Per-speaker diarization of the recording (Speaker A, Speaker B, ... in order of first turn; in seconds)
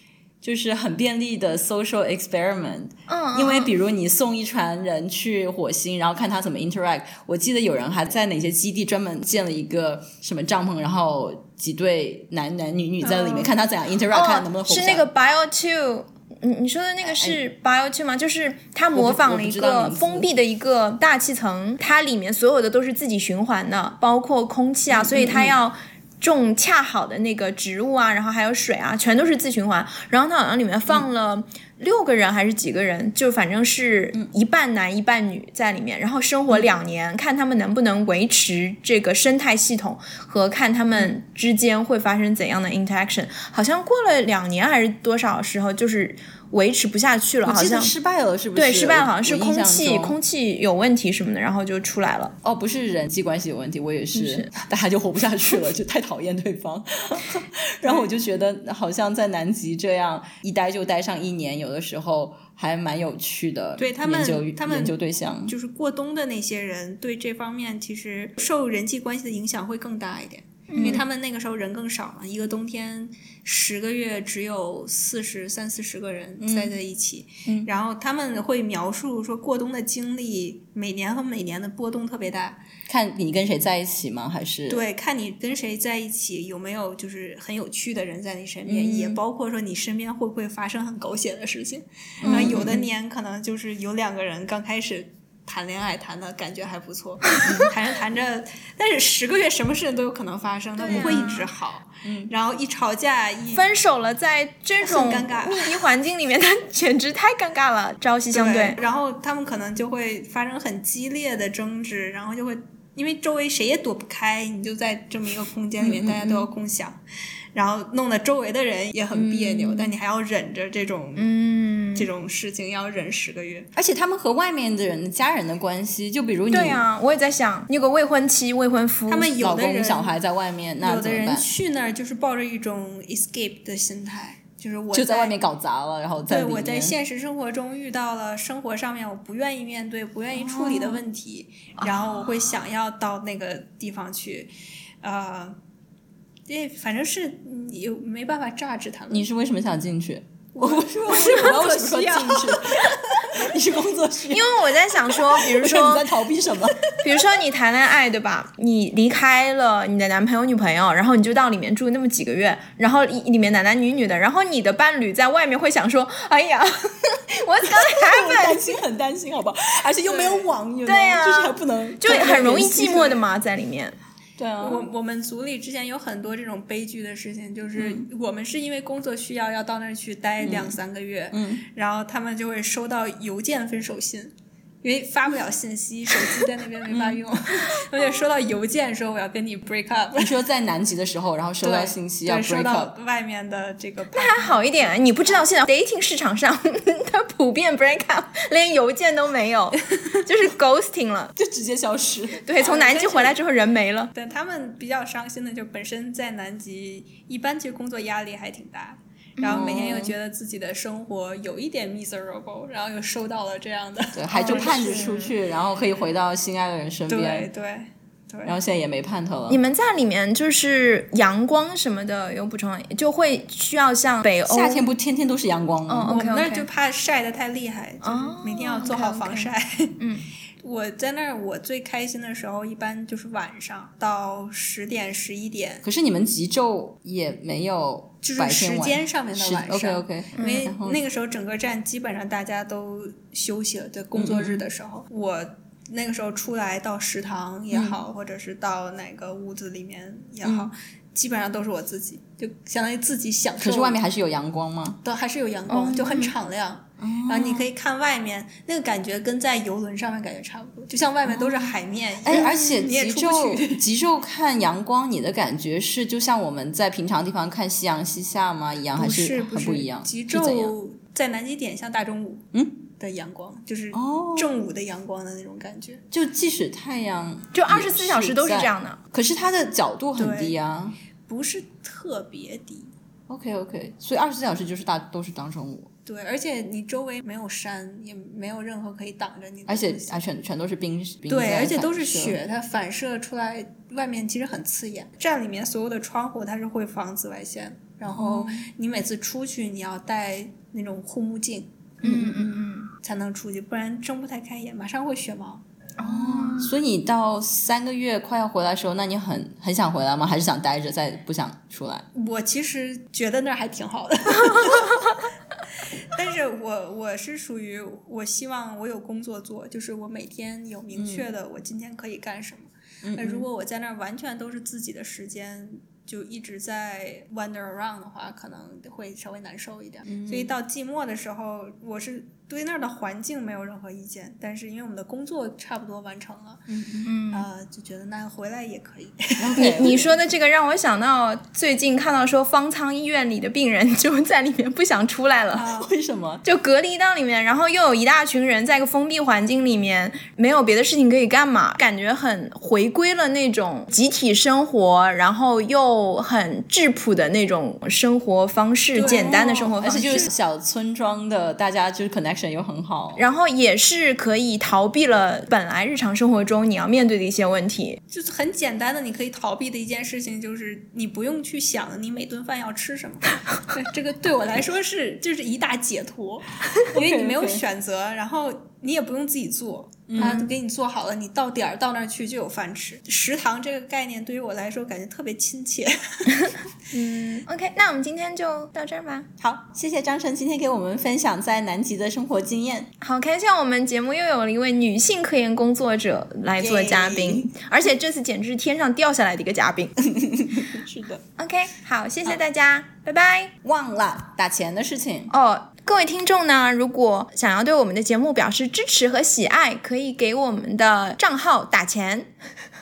Speaker A: 0.4-15.1, 17.1-17.4, 18.9-20.3, 24.9-25.6, 47.5-50.2, 52.4-65.5, 70.8-71.0, 76.4-76.7, 82.9-84.8, 88.7-89.2, 92.2-92.9, 100.9-101.4, 102.0-102.3, 115.8-116.5, 119.1-119.9, 123.8-126.8, 129.4-131.5, 134.9-137.0, 140.4-141.0, 149.1-157.1, 167.7-173.2, 174.4-174.9, 177.8-178.1, 180.4-180.8, 181.3-181.6, 186.9-187.2, 190.2-192.9, 201.4-202.5, 209.4-210.1, 214.1-217.5, 218.4-219.6, 224.5-226.2, 235.8-241.0, 244.2-244.6, 247.7-248.0, 250.4-250.7, 253.6-255.0, 257.0-257.7, 261.3-270.7, 273.9-274.5, 276.1-281.0, 283.3-285.9, 289.7-292.4, 298.1-298.7, 302.0-302.7, 306.0-312.1, 321.0-321.2, 323.0-323.5, 330.1-330.5, 336.7-337.1, 339.4-340.1, 345.7-346.4, 359.0-363.2, 376.9-377.6, 380.1-380.5, 389.4-392.9, 396.6-397.5, 400.1-401.2, 403.6-405.3
Speaker B: 3.1-3.7, 14.1-47.9, 48.5-52.4, 54.1-54.5, 70.7-71.0, 100.8-101.5, 103.5-108.8, 121.2-122.1, 126.5-129.3, 141.8-142.3, 154.3-156.2, 157.0-168.8, 170.9-174.0, 194.1-201.3, 202.4-204.1, 209.4-209.7, 214.3-215.3, 219.5-224.9, 225.9-226.7, 228.0-230.2, 240.4-240.7, 255.7-256.3, 277.5-279.0, 302.0-302.9, 306.0-306.7, 337.1-337.5, 339.6-345.7, 346.4-360.3, 363.2-368.0, 380.2-380.5, 386.9-389.3, 393.0-399.9, 401.4-403.5, 405.3-412.3
Speaker C: 13.0-13.5, 63.8-64.9, 65.5-82.6, 84.7-103.7, 104.8-105.8, 108.3-117.0, 117.5-121.3, 121.9-123.7, 129.1-130.1, 130.8-135.4, 136.3-145.6, 146.5-149.3, 150.6-153.5, 170.0-170.5, 172.1-172.7, 174.6-190.4, 191.6-195.4, 202.6-203.4, 204.1-215.2, 217.1-218.6, 226.1-230.0, 230.6-235.8, 238.2-254.0, 255.0-263.8, 269.0-276.0, 280.2-280.6, 281.3-282.9, 286.1-290.2, 291.3-302.3, 303.0-305.6, 312.1-315.2, 316.1-336.7, 337.3-339.9, 345.5-345.9, 358.9-360.3, 368.1-387.4